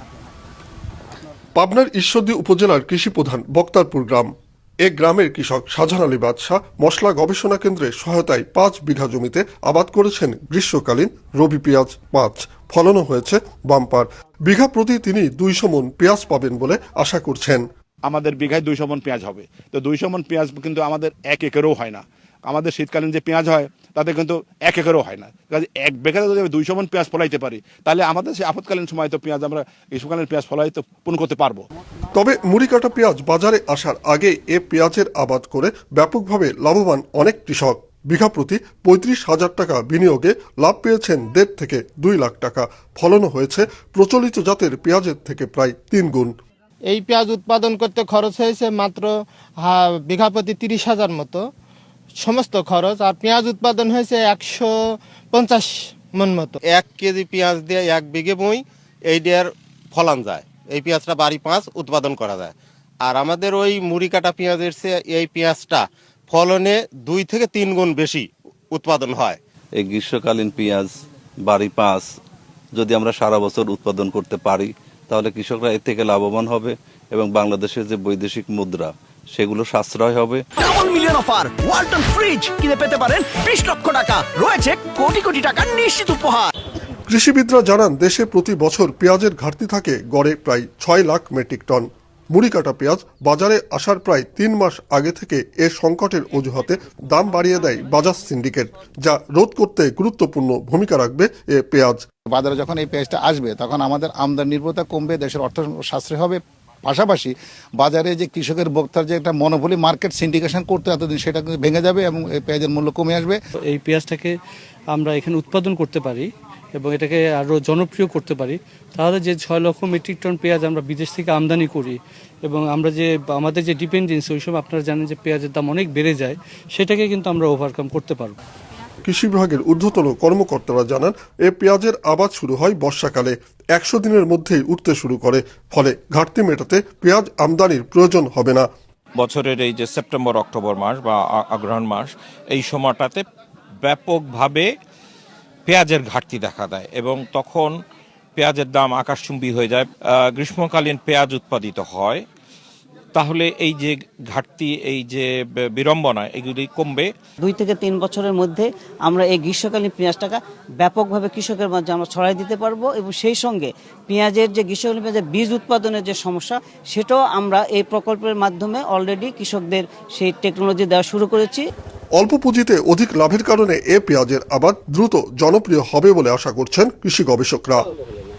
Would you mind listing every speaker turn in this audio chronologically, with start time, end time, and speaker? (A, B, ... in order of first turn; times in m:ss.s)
0:01.6-0:04.3 A
0:04.8-0:17.6 A
0:18.1-0:31.6 B
0:32.1-0:46.3 A
0:46.8-0:51.5 C
0:52.2-0:56.6 C
0:56.7-1:09.4 D
1:09.8-1:10.9 E
1:11.4-1:12.1 E
1:12.8-1:20.4 E
1:20.6-1:26.5 F
1:27.1-1:42.0 A
1:42.3-1:53.4 G
1:53.7-1:54.4 H
1:54.9-2:08.4 H
2:09.0-2:18.7 A
2:19.2-2:23.2 I
2:23.8-2:24.7 I
2:25.7-2:27.7 I
2:28.4-2:32.2 I
2:33.1-2:37.1 I
2:37.4-2:51.6 J
2:52.2-2:57.9 A